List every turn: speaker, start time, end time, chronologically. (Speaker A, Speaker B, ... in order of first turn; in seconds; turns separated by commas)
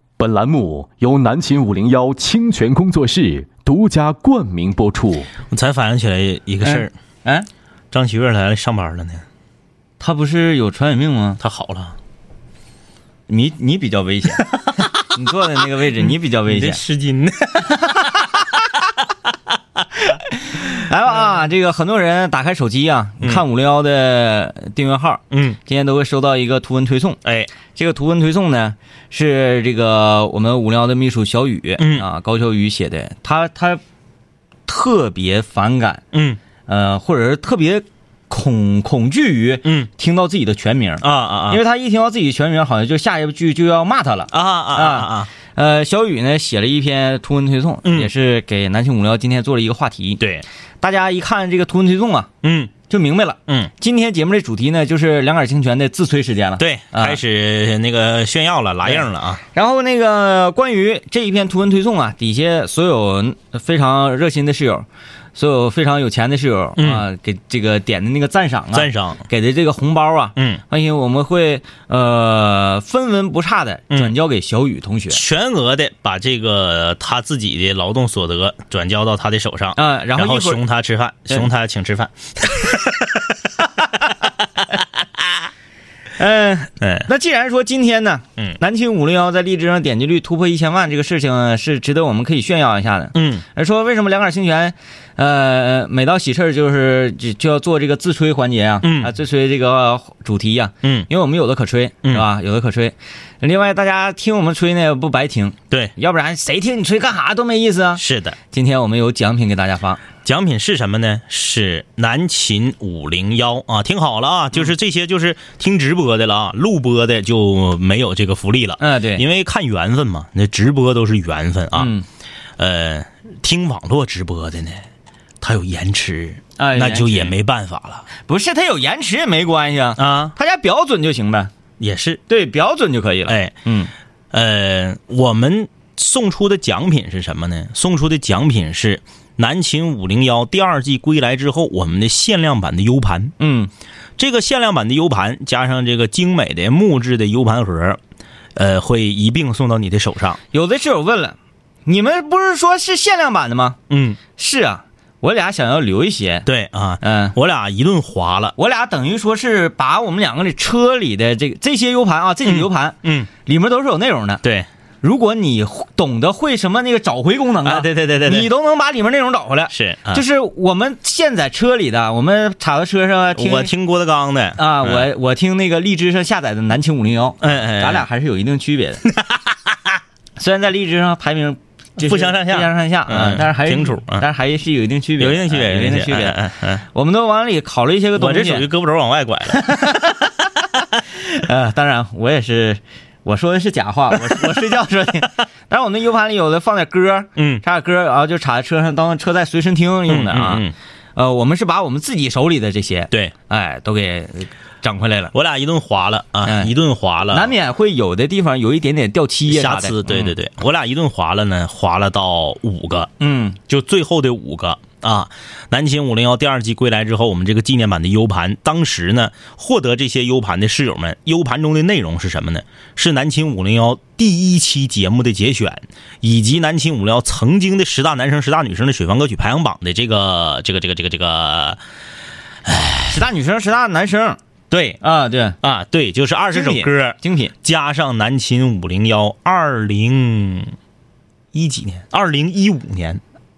Speaker A: 0.2-5.3, Speaker B: 5.5-6.9, Speaker C: 6.6-7.5, Speaker B: 7.9-9.2, Speaker C: 10.0-11.4, Speaker B: 11.4-12.0, Speaker C: 13.3-14.5, Speaker B: 14.6-14.9, Speaker C: 15.1-16.8, Speaker B: 16.0-18.2, Speaker C: 20.2-27.2, Speaker B: 25.3-25.6, Speaker B: 27.2-27.5, Speaker C: 27.7-33.8, Speaker B: 31.8-32.0, Speaker C: 34.7-36.0, Speaker B: 36.1-36.4, Speaker C: 36.7-50.2, Speaker B: 41.0-41.6, Speaker B: 44.3-45.3, Speaker B: 47.8-48.1, Speaker B: 50.2-50.4, Speaker C: 50.8-52.3, Speaker B: 52.4-52.7, Speaker C: 52.9-57.2, Speaker B: 56.6-59.4, Speaker C: 58.9-75.2, Speaker B: 66.8-67.0, Speaker B: 68.7-69.2, Speaker B: 70.3-70.6, Speaker B: 75.1-83.3, Speaker C: 79.8-80.6, Speaker B: 84.7-85.2, Speaker C: 86.2-110.0, Speaker B: 86.8-87.1, Speaker B: 93.1-93.4, Speaker B: 98.8-99.1, Speaker B: 100.8-101.1, Speaker B: 108.0-108.4, Speaker B: 110.2-121.9, Speaker C: 118.8-119.2, Speaker C: 121.8-122.0, Speaker B: 122.6-124.8, Speaker B: 125.4-128.1, Speaker C: 126.6-127.3, Speaker C: 128.2-131.5, Speaker B: 130.0-130.3, Speaker B: 131.8-132.2, Speaker C: 132.3-133.9, Speaker B: 133.3-133.6, Speaker B: 134.3-143.3, Speaker C: 143.4-143.7, Speaker B: 144.2-148.0, Speaker B: 148.5-150.4, Speaker C: 150.5-153.8, Speaker B: 153.9-154.2, Speaker C: 154.4-156.4, Speaker B: 156.4-158.5, Speaker C: 157.0-157.3, Speaker C: 158.6-164.4, Speaker B: 162.4-163.3, Speaker B: 164.4-164.7, Speaker C: 165.0-173.7, Speaker B: 167.6-168.5, Speaker B: 169.7-170.2, Speaker B: 173.3-175.1, Speaker C: 174.6-179.0, Speaker B: 177.4-178.0, Speaker B: 179.1-179.9, Speaker C: 180.4-186.4, Speaker B: 182.0-184.2, Speaker B: 185.2-186.8, Speaker C: 186.9-188.7, Speaker B: 188.1-189.6, Speaker C: 189.5-190.3, Speaker C: 191.1-200.6, Speaker B: 194.2-194.5, Speaker B: 197.3-197.6, Speaker B: 200.1-200.7, Speaker C: 201.2-205.3, Speaker B: 205.3-207.5, Speaker C: 206.4-206.7, Speaker C: 207.3-210.3, Speaker B: 209.5-213.1, Speaker C: 213.2-213.6, Speaker B: 213.7-231.8, Speaker B: 232.6-233.2, Speaker C: 233.1-234.4, Speaker B: 234.7-235.0, Speaker C: 235.0-235.6, Speaker B: 235.6-240.7, Speaker C: 236.5-237.5, Speaker B: 241.5-243.2